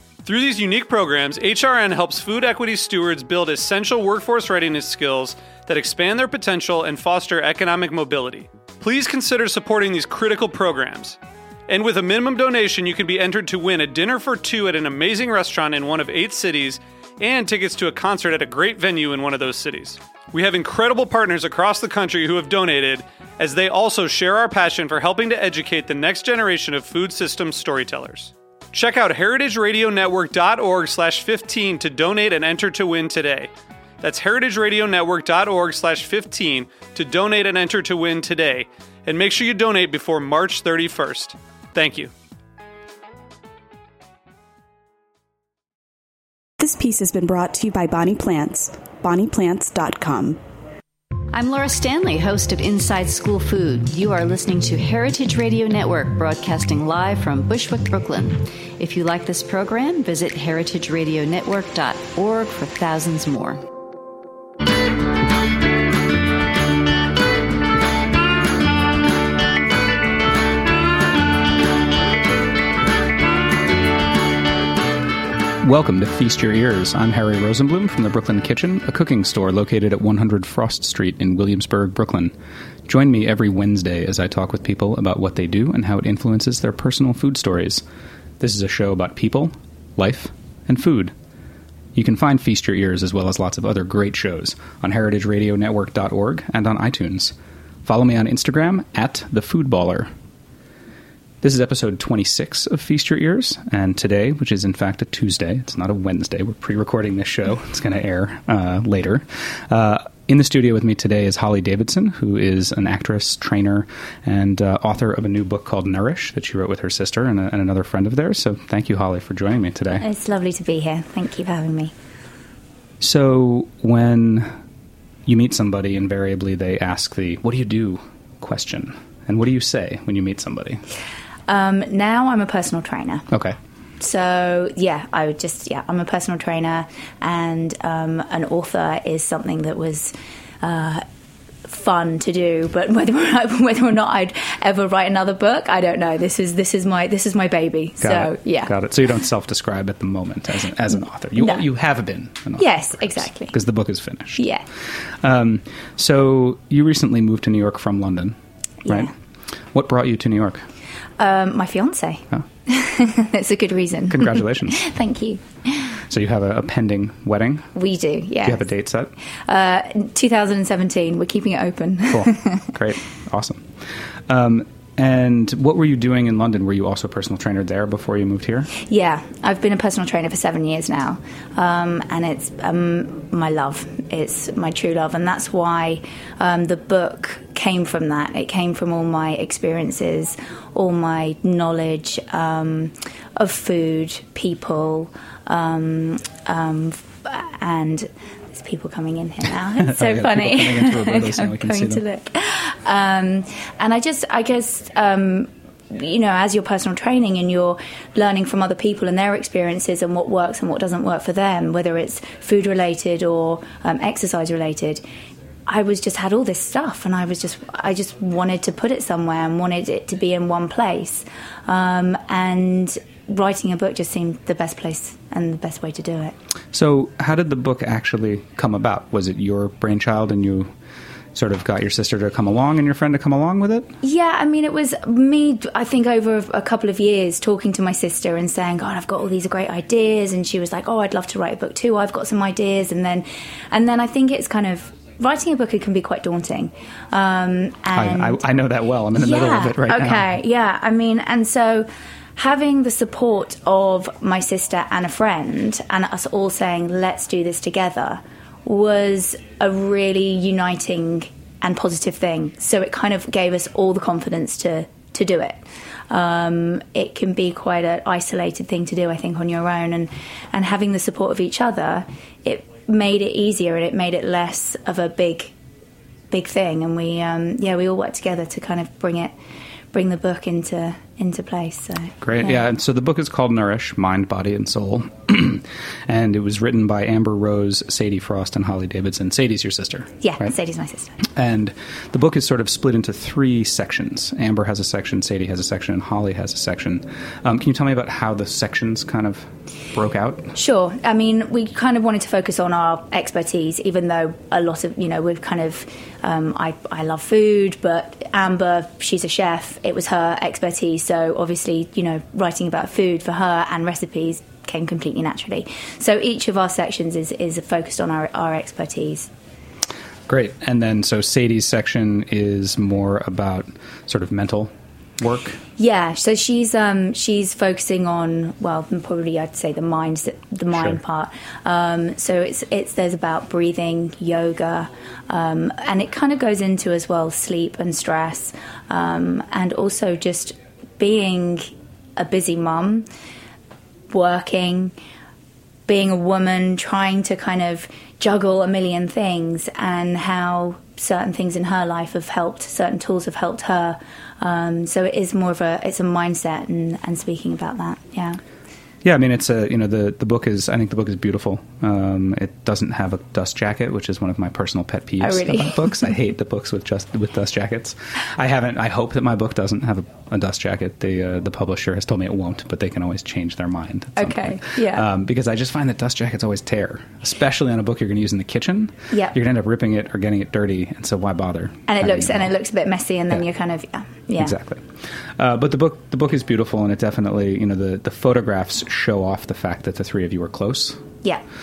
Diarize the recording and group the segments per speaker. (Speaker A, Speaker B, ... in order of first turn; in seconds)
Speaker A: 0.2-11.2, 11.7-33.5, 34.0-42.1
Speaker B: 46.6-50.4
Speaker C: 51.3-63.6
Speaker D: 75.6-82.3, 82.9-87.8, 88.4-91.1, 92.0-100.1, 101.4-120.0, 123.0-124.5, 125.3-130.8, 133.3-133.6, 148.0-159.1, 159.7-160.7, 164.1-164.8, 166.1-167.7, 168.4-169.1, 172.1-178.7, 199.8-202.0, 226.7-230.7, 231.3-233.9, 247.9-250.3, 282.2-290.5, 291.2-300.5, 320.3-325.6, 359.0-382.5, 384.4-391.0
Speaker E: 120.0-121.9, 131.5-133.3, 134.0-141.0, 141.7-148.7, 151.4-151.6, 152.6-153.6, 154.4-154.7, 158.9-159.1, 161.2-165.9, 167.8-168.7, 169.5-172.7, 178.8-215.0, 215.7-226.4, 234.0-248.4, 249.2-275.6, 276.3-279.3, 279.9-282.6, 290.2-291.2, 300.6-319.3, 325.8-343.1, 344.1-344.9, 345.9-358.4, 365.2-366.0, 374.2-375.1, 379.1-379.4, 381.9-384.6